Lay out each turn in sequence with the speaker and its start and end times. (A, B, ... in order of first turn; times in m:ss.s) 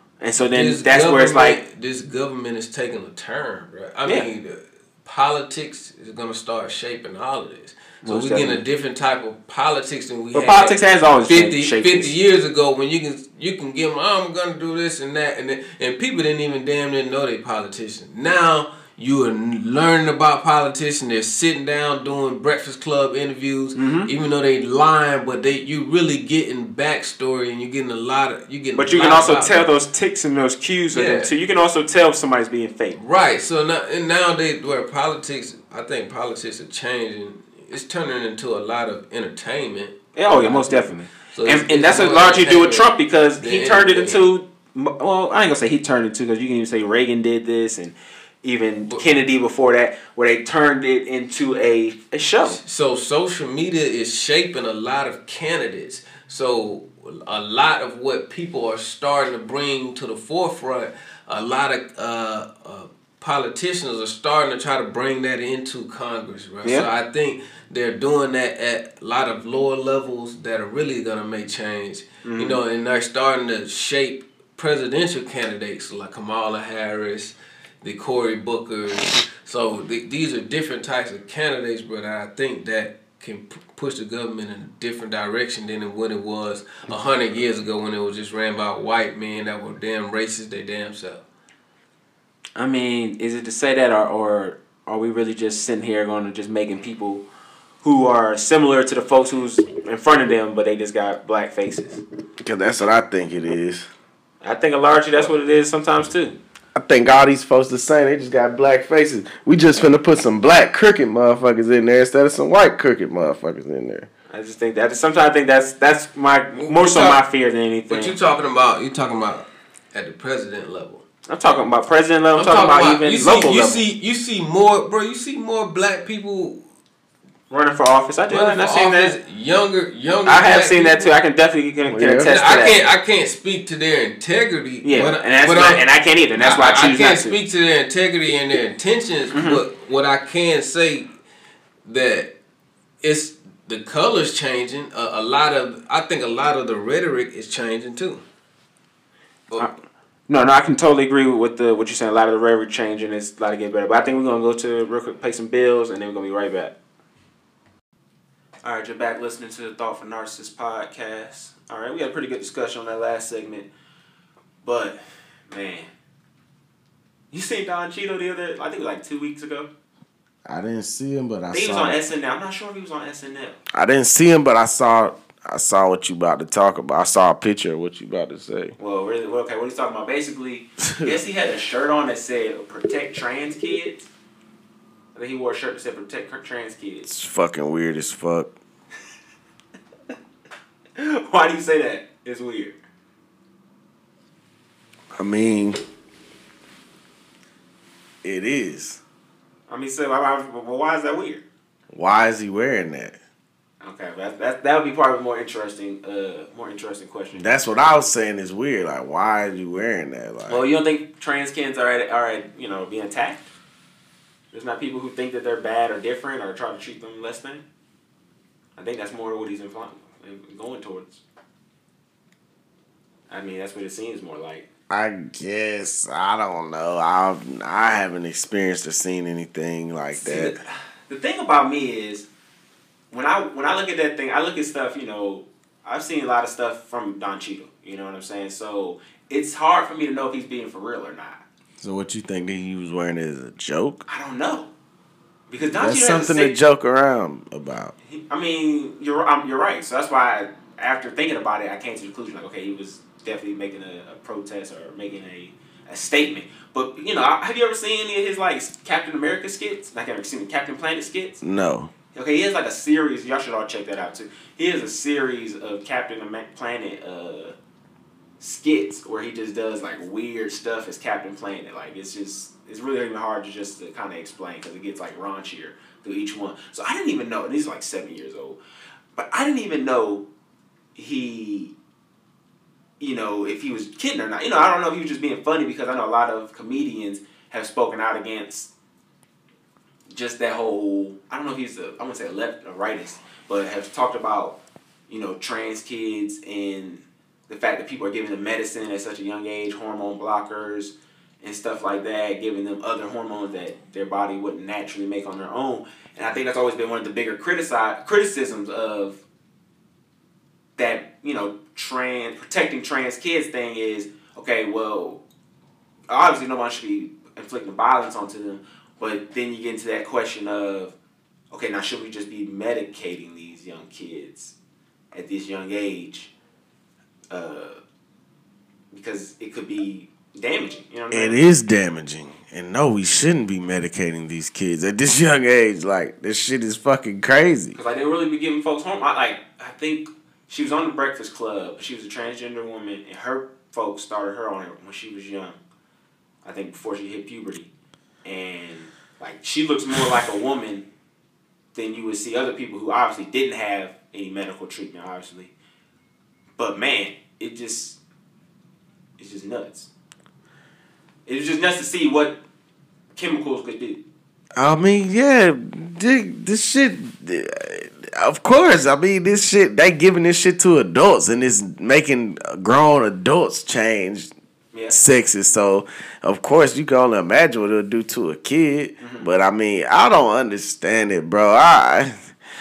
0:00.2-0:01.6 A
0:00.4-0:29.7 B
0:08.0-0:08.6 A
0:10.3-0:12.1 A
0:23.8-0:24.1 A
0:28.8-0:33.0 A
0:30.9-0:31.3 B
0:33.0-0:44.3 B
0:40.2-0:52.6 A
0:52.4-1:31.2 B
1:12.2-1:12.6 A
1:32.6-1:37.2 A
1:37.8-1:42.0 A
1:42.4-1:43.9 C
1:44.4-1:46.4 A
1:46.8-1:54.1 C
1:54.3-1:58.2 A
1:56.6-1:57.2 B
1:57.9-2:01.0 B
2:01.3-2:03.8 A
2:02.4-2:06.6 B
2:07.5-2:09.2 A
2:08.3-2:11.2 B
2:10.3-2:12.8 A
2:11.9-2:12.4 C
2:12.2-2:21.1 B
2:14.8-2:17.4 A
2:19.3-2:19.6 A
2:21.8-2:22.3 B
2:23.0-2:28.2 B
2:30.3-2:36.7 A
2:38.6-2:43.7 A
2:44.6-2:45.9 A
2:47.3-2:49.7 A
2:50.5-2:52.0 C
2:51.5-2:53.6 A
2:53.7-2:58.8 C
2:58.8-3:04.1 A
3:00.8-3:01.2 C
3:05.2-3:07.1 A
3:07.1-3:08.5 C
3:11.0-3:12.8 A
3:15.2-3:15.8 C
3:18.2-3:19.0 C
3:19.7-3:21.4 A
3:21.9-3:23.2 C
3:23.8-3:27.5 A
3:27.4-3:30.6 C
3:30.5-3:33.5 A
3:34.5-3:37.6 A
3:38.8-3:41.2 A
3:43.3-3:44.7 A
3:44.9-3:50.5 C
3:50.1-3:52.3 A
3:53.1-4:01.4 A
4:01.8-4:04.0 C
4:04.1-4:04.7 A
4:05.5-4:06.6 A
4:05.8-4:07.9 C
4:08.1-4:21.4 A
4:21.4-4:21.9 C
4:22.1-4:27.6 A
4:28.4-4:38.6 A
4:39.2-4:40.3 A
4:41.0-4:41.7 A
4:43.0-4:48.7 A
4:50.1-4:54.6 A
4:55.1-5:09.2 A
5:10.8-5:15.2 A
5:16.1-5:21.0 A
5:21.5-5:24.5 A
5:25.1-5:26.3 A
5:27.3-5:27.8 A
5:28.9-5:31.4 A
5:31.1-5:37.8 C
5:37.8-5:45.6 A
5:46.4-5:47.7 A
5:48.2-5:50.8 A
5:51.8-5:55.5 A
5:56.6-5:58.0 A
5:59.2-5:59.9 A
6:01.3-6:02.4 A
6:03.2-6:04.0 A
6:04.6-6:14.3 C
6:14.7-6:15.0 A
6:14.9-6:22.3 C